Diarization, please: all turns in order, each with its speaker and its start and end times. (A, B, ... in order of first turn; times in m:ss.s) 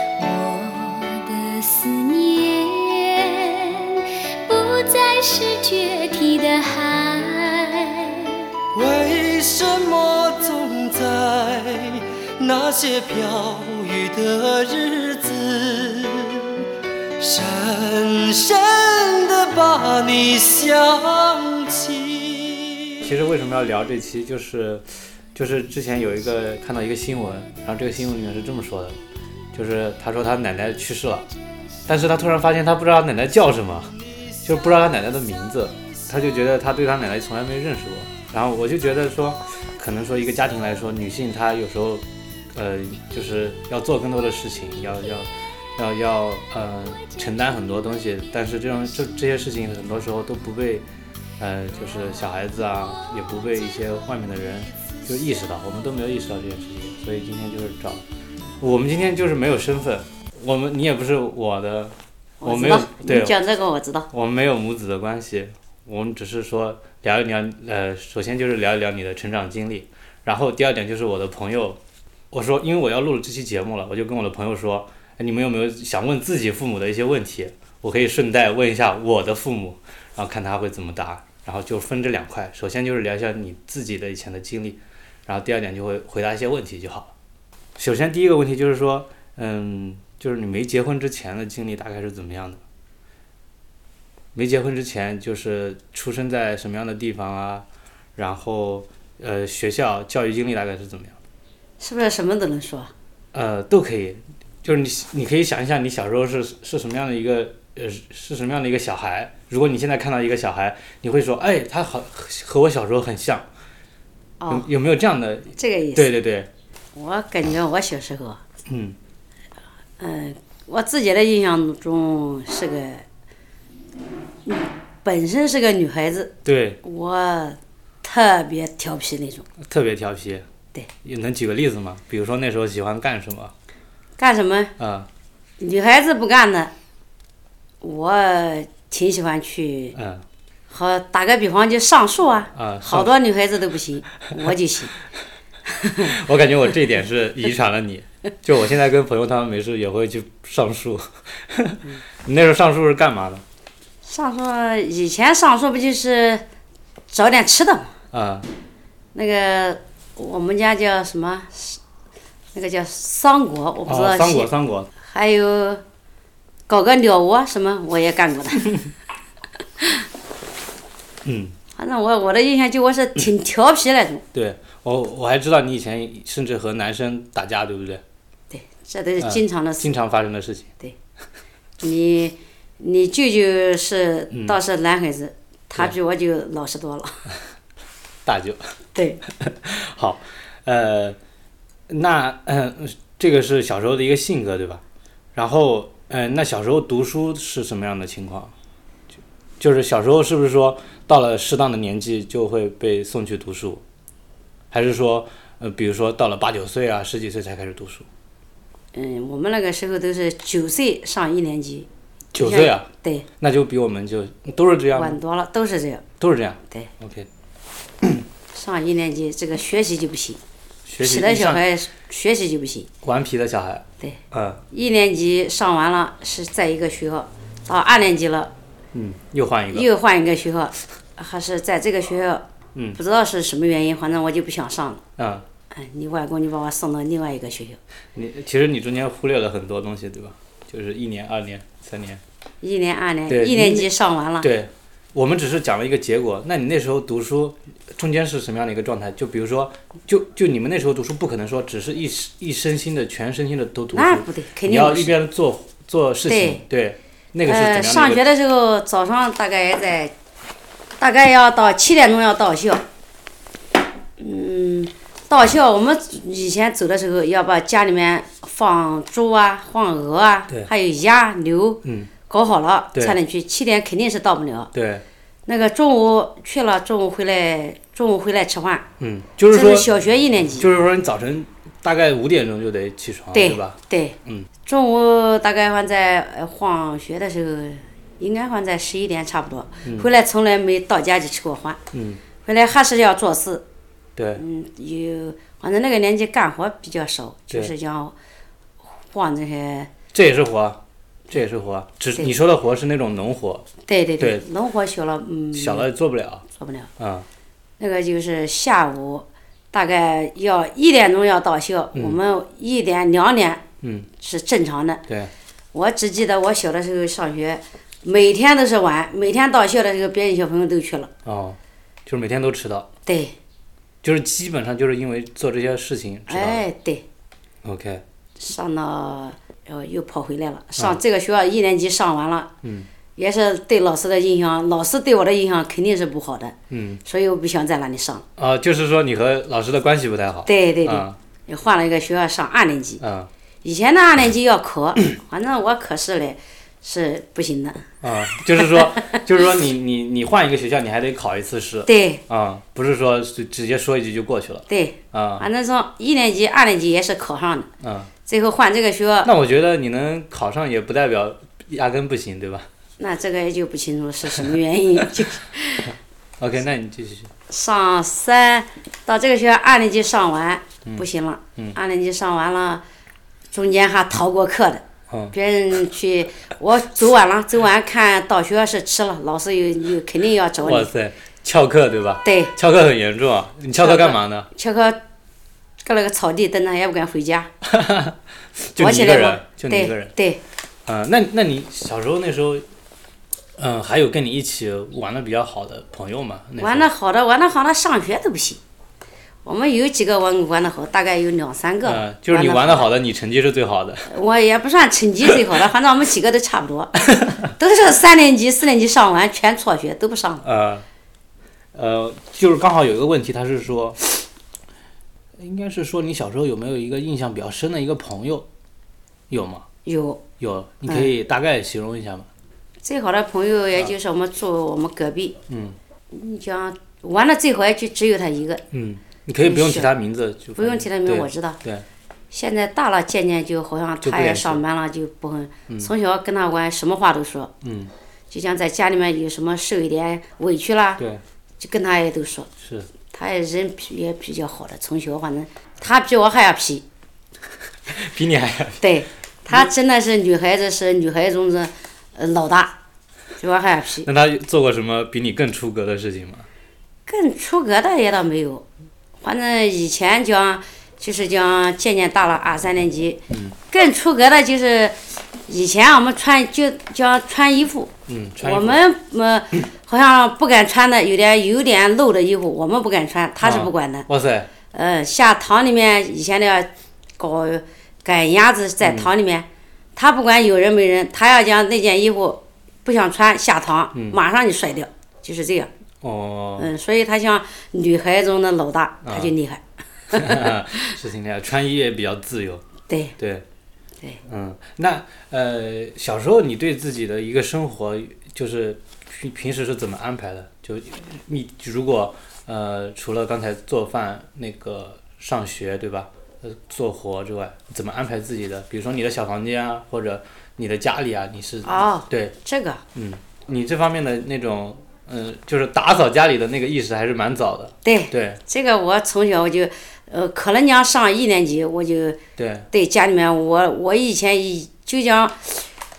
0:00.2-0:08.4 A
0:08.7-0:16.6 B
0:17.2-0:23.0 B
0:23.0-0:29.0 C
0:29.5-0:31.3 C
0:31.9-0:50.9 C
0:51.4-0:58.0 C
0:58.6-1:03.4 C
1:02.4-1:04.1 D
1:04.1-1:27.1 C
1:27.8-1:32.6 C
1:34.3-1:41.2 C
1:41.8-1:42.9 D
1:43.3-1:53.5 C
1:54.4-1:54.7 D
1:54.5-1:56.5 C
1:55.6-1:56.1 D
1:56.9-1:58.4 D
1:58.7-1:59.0 C
2:00.0-2:03.0 D
2:04.4-2:09.5 D
2:06.4-2:06.8 C
2:09.6-2:10.4 C
2:11.0-2:13.5 C
2:14.2-2:14.7 D
2:14.8-2:15.1 C
2:15.6-2:16.7 D
2:17.8-2:20.0 D
2:19.9-2:20.2 C
2:20.7-2:24.9 D
2:22.5-2:23.1 C
2:25.7-2:26.1 D
2:26.0-2:33.4 C
2:34.0-2:36.4 D
2:37.1-2:37.9 D
2:38.1-2:38.5 C
2:39.1-2:41.8 D
2:42.5-2:44.5 D
2:43.8-2:44.9 C
2:45.0-2:45.8 D
2:46.7-2:48.8 D
2:49.8-2:50.0 D
2:51.2-2:51.6 C
2:51.8-2:54.2 D
2:54.3-2:58.0 C
2:58.5-2:59.9 D
2:59.2-3:00.7 C
3:01.8-3:07.2 D
3:04.3-3:04.6 C
3:08.2-3:08.6 C
3:08.9-3:09.2 D
3:09.3-3:11.2 C
3:11.9-3:14.8 C
3:15.3-3:18.5 C
3:19.1-3:23.8 C
3:24.7-3:28.0 C
3:28.9-3:33.3 D
3:32.3-3:32.9 C
3:33.4-3:35.2 C
3:34.9-3:36.0 D
3:36.2-3:37.3 C
3:38.5-3:40.4 D
3:40.8-3:41.7 C
3:41.0-3:42.9 D
3:43.0-3:44.6 C
3:44.7-3:48.5 D
3:48.9-3:49.9 C
3:49.7-3:52.4 D
3:52.9-3:55.0 D
3:55.2-3:55.4 C
3:55.7-3:57.8 D
3:58.1-4:02.2 C
4:02.6-4:04.5 D
4:03.3-4:18.2 C
4:13.9-4:15.1 D
4:16.3-4:16.6 D
4:17.4-4:20.1 D
4:21.0-4:22.8 D
4:24.2-4:34.7 D
4:31.8-4:32.1 C
4:34.7-4:35.0 C
4:35.4-4:38.8 D
4:39.0-4:39.9 C
4:39.5-4:40.7 D
4:40.5-4:44.5 C
4:43.3-4:51.8 D
4:49.8-4:50.1 C
4:51.9-4:52.2 C
4:52.4-4:53.6 D
4:54.2-4:54.4 C
4:54.4-4:58.1 D
4:59.1-4:59.9 D
5:00.1-5:03.7 C
5:03.8-5:05.9 D
5:04.2-5:04.4 C
5:05.5-5:06.4 C
5:06.5-5:06.9 D
5:07.0-5:07.2 C
5:07.8-5:13.6 D
5:13.8-5:14.1 C
5:14.2-5:15.0 D
5:15.7-5:21.1 D
5:21.2-5:22.9 C
5:23.0-5:23.3 D
5:24.0-5:26.6 C
5:26.3-5:27.0 D
5:27.6-5:28.0 C
5:28.4-5:32.5 D
5:32.6-5:32.9 C
5:33.2-5:38.2 D
5:36.7-5:37.0 C
5:38.4-5:41.2 C
5:40.4-5:43.0 D
5:43.0-5:43.3 C
5:43.6-5:49.2 D
5:48.0-5:55.5 C
5:51.8-5:52.2 D
5:54.7-5:57.7 D
5:57.8-5:58.1 C
5:58.2-5:59.3 D
5:59.2-6:02.7 C
6:03.0-6:05.9 D
6:04.4-6:05.0 C
6:06.4-6:07.3 C
6:07.5-6:12.8 D
6:13.5-6:20.9 D
6:20.6-6:24.5 C
6:22.2-6:22.5 D
6:23.7-6:25.0 D
6:25.8-6:27.5 D
6:27.6-6:30.1 C
6:28.8-6:30.4 D
6:30.8-6:32.6 C
6:33.6-6:36.9 C
6:36.6-6:38.6 D
6:39.4-6:42.9 D
6:41.8-6:44.1 C
6:44.1-6:50.4 D
6:47.1-6:47.4 C
6:50.4-6:50.8 C
6:51.7-6:54.2 C
6:55.4-6:58.5 C
6:59.3-6:59.6 C
6:59.8-7:00.2 D
7:00.4-7:02.3 C
7:00.8-7:01.1 D
7:02.8-7:05.4 D
7:05.5-7:05.8 C
7:06.1-7:08.6 D
7:08.7-7:11.8 C
7:09.4-7:09.9 D
7:10.6-7:11.6 D
7:12.3-7:17.5 D
7:14.0-7:14.6 C
7:17.6-7:17.9 C
7:18.3-7:21.0 D
7:21.6-7:22.5 D
7:22.6-7:22.9 C
7:23.1-7:26.8 D
7:27.9-7:28.8 C
7:28.8-7:32.8 D
7:33.4-7:34.1 D
7:34.0-7:36.5 C
7:37.1-7:38.6 D
7:39.2-7:54.1 D
7:43.3-7:43.6 C
7:48.1-7:48.8 C
7:53.4-7:54.5 C
7:54.7-8:05.7 D
7:58.8-7:59.1 C
8:06.0-8:06.7 C
8:06.6-8:10.9 D
8:09.0-8:09.3 C
8:10.1-8:12.6 C
8:12.9-8:13.2 D
8:13.2-8:13.4 C
8:14.2-8:32.3 C
8:31.6-8:32.8 D
8:32.9-8:38.4 C
8:37.8-8:42.2 D
8:42.4-8:42.7 C
8:42.7-8:45.7 D